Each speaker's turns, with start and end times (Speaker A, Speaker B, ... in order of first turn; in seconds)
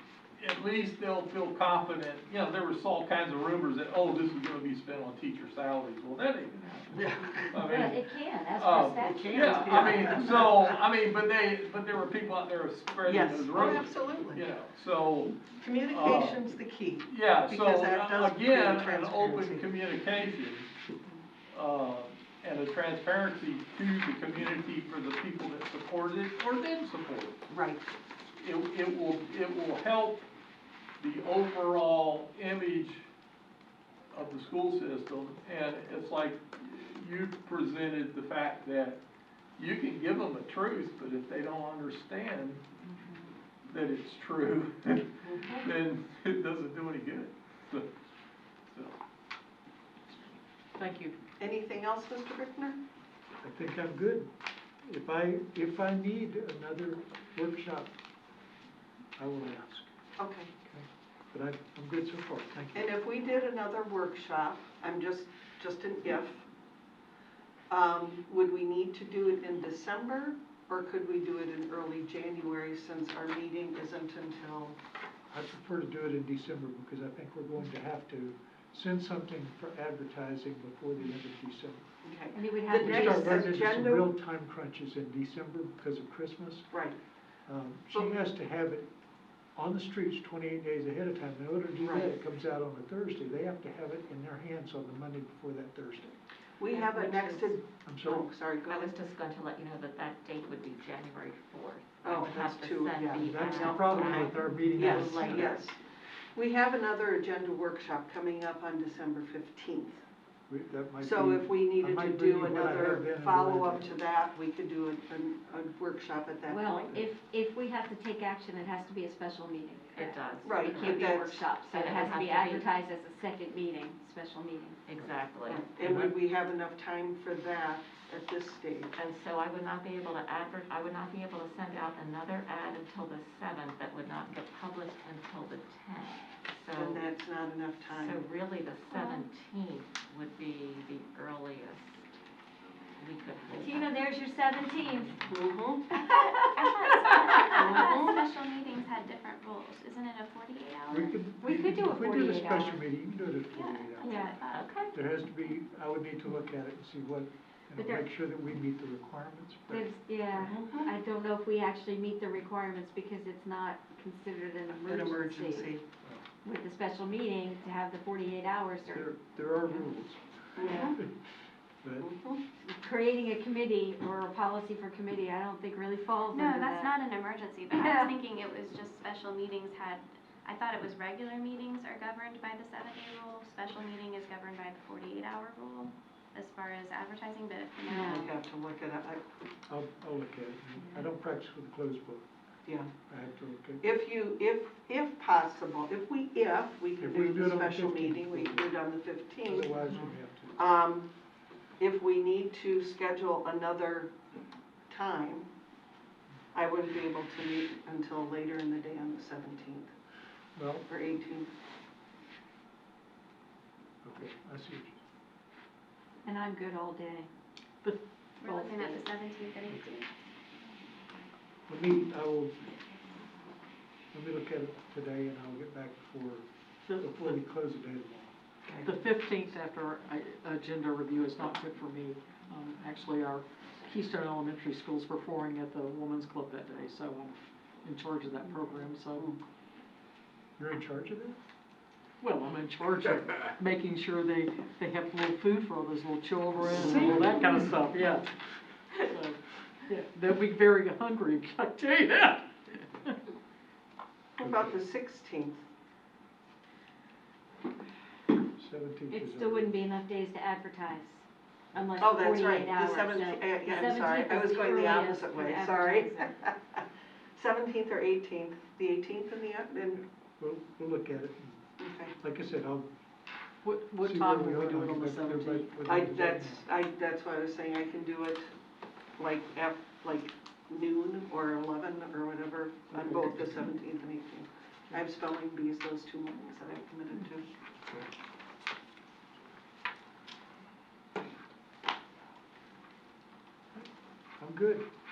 Speaker A: 0.4-8.0, 8.6-16.4, 17.1-20.7, 21.5-27.3, 28.3-30.2, 31.0-33.0, 34.1-39.0, 39.6-42.6, 43.6-47.9, 48.7-49.0
Speaker B: 7.6-10.3, 82.3-83.5, 116.5-124.8, 143.6-145.2, 146.0-146.6, 147.3-148.1, 151.4-152.8, 154.0-154.4, 157.7-158.0, 159.7-165.7, 166.4-169.1, 172.7-176.9, 177.7-178.1, 187.9-188.2, 216.2-217.3, 218.4-219.1, 259.1-266.3
Speaker C: 9.1-9.9, 50.8-51.1, 226.8-227.4, 228.8-239.3, 242.2-248.3, 248.9-253.2, 273.6-275.7, 282.9-283.6
Speaker D: 9.7-10.5, 13.0-14.4, 15.5-19.7, 27.5-27.9, 51.4-52.8, 60.2-60.5, 62.7-66.4, 67.7-74.8, 82.0-84.1, 86.7-87.0, 91.8-92.2, 96.6-98.9, 102.0-105.8, 106.3-110.0, 111.0-117.0, 120.4-121.5, 125.5-128.9, 136.7-138.2, 145.3-145.9, 147.5-148.1, 160.4-160.9, 164.8-165.8, 170.6-170.9, 172.0-172.4, 188.1-189.2, 193.8-199.7, 200.5-201.1, 201.8-204.1, 204.9-205.5, 206.5-209.9, 210.9-211.5, 228.7-228.9, 238.4-239.3, 246.8-247.5, 254.4-255.6, 262.0-266.8, 267.4-270.0, 271.8-272.1, 275.8-278.5, 279.2-287.4
Speaker E: 53.4-54.3, 54.8-57.9, 59.2-59.9, 60.6-62.9, 75.3-81.8, 82.7-86.8, 87.5-88.9, 89.5-96.2, 97.8-98.3, 103.1-105.6, 110.5-114.0, 125.8-126.1, 150.9-154.4, 154.9-160.5, 168.9-171.1, 189.7-192.2, 193.1-193.8, 197.0-198.7, 199.4-200.5, 210.6-210.9, 214.0-215.0, 221.7-222.6, 224.1-228.3, 240.6-241.4, 246.8-247.3, 254.4-254.8, 258.6-259.8, 270.0-272.9, 274.0-276.6, 294.4-294.9
Speaker F: 96.7-97.5, 98.7-105.5, 120.0-121.1, 121.7-122.6, 124.9-125.6, 128.9-137.0, 137.9-142.0, 143.0-143.9, 154.5-154.9
Speaker G: 138.9-139.2, 146.1-151.2, 153.5-154.8, 176.3-188.3, 218.4-220.1